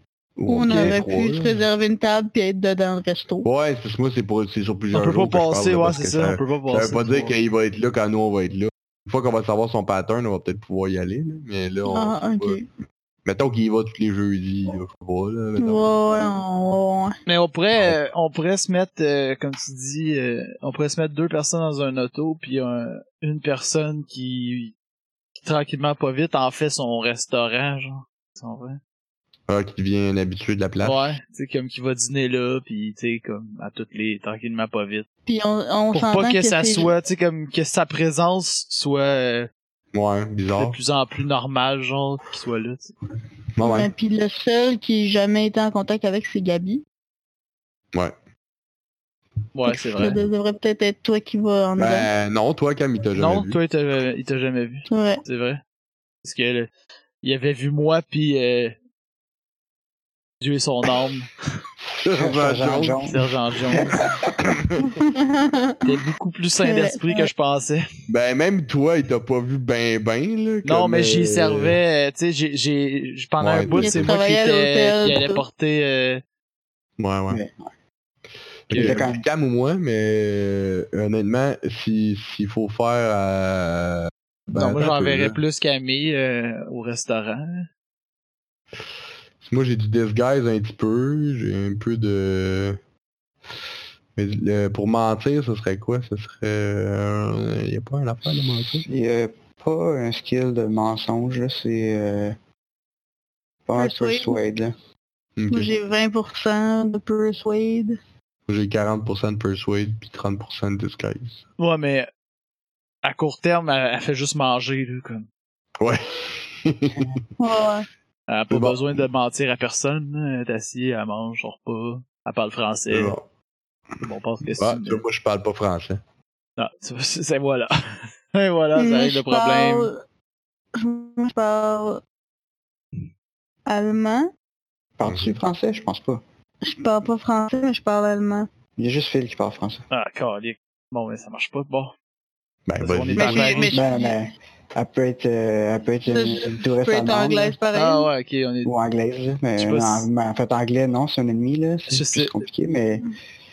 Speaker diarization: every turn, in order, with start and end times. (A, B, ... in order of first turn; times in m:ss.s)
0:00.4-0:01.6 A
0:00.5-0:03.5 B
0:00.7-0:01.0 C
0:03.4-0:12.6 A
0:04.9-0:07.3 C
0:11.9-0:12.6 B
0:13.2-0:15.9 A
0:15.6-0:17.2 B
0:17.2-0:24.7 C
0:25.4-0:28.8 C
0:29.5-0:31.2 A
0:30.8-0:35.0 C
0:35.2-0:36.9 B
0:35.9-0:39.5 C
0:39.9-0:40.8 A
0:40.6-0:42.9 C
0:43.6-0:43.9 A
0:43.6-0:46.8 B
0:49.5-0:50.2 C
0:49.6-0:52.1 B
0:51.8-0:53.6 A
0:53.1-0:55.6 C
0:54.9-0:55.2 B
0:56.2-0:56.7 C
0:57.2-0:58.8 C
1:00.4-1:01.4 C
1:02.0-1:03.0 A
1:02.0-1:04.3 D
1:03.0-1:04.1 C
1:04.4-1:04.9 A
1:04.8-1:05.8 B
1:05.8-1:07.8 C
1:06.6-1:07.3 B
1:08.1-1:11.8 A
1:10.6-1:16.2 C
1:13.4-1:14.1 A
1:13.7-1:15.4 B
1:17.0-1:17.4 A
1:17.3-1:17.7 D
1:18.7-1:19.2 D
1:18.7-1:25.4 A
1:18.7-1:19.0 C
1:24.5-1:27.7 C
1:29.4-1:32.8 A
1:34.2-1:38.8 A
1:38.7-1:42.4 D
1:43.6-1:44.7 D
1:43.8-1:44.4 B
1:45.4-1:45.7 A
1:45.5-1:48.0 B
1:48.5-1:51.4 A
1:51.6-1:52.1 C
1:53.0-1:55.3 C
1:55.8-1:57.2 A
1:57.4-1:57.8 B
1:58.3-2:03.1 C
1:58.5-1:59.0 A
2:02.9-2:03.2 A
2:04.0-2:05.0 C
2:04.6-2:06.0 A
2:06.6-2:09.9 C
2:08.7-2:10.0 B
2:10.8-2:12.0 B
2:13.6-2:14.3 B
2:15.0-2:16.2 D
2:15.0-2:15.4 A
2:16.6-2:18.5 B
2:18.8-2:19.8 D
2:19.9-2:21.9 C
2:22.6-2:23.7 A
2:22.8-2:23.8 C
2:23.2-2:24.2 B
2:23.7-2:27.6 D
2:26.1-2:28.1 B
2:27.7-2:28.7 C
2:28.6-2:33.0 D
2:29.6-2:30.1 C
2:31.9-2:32.4 C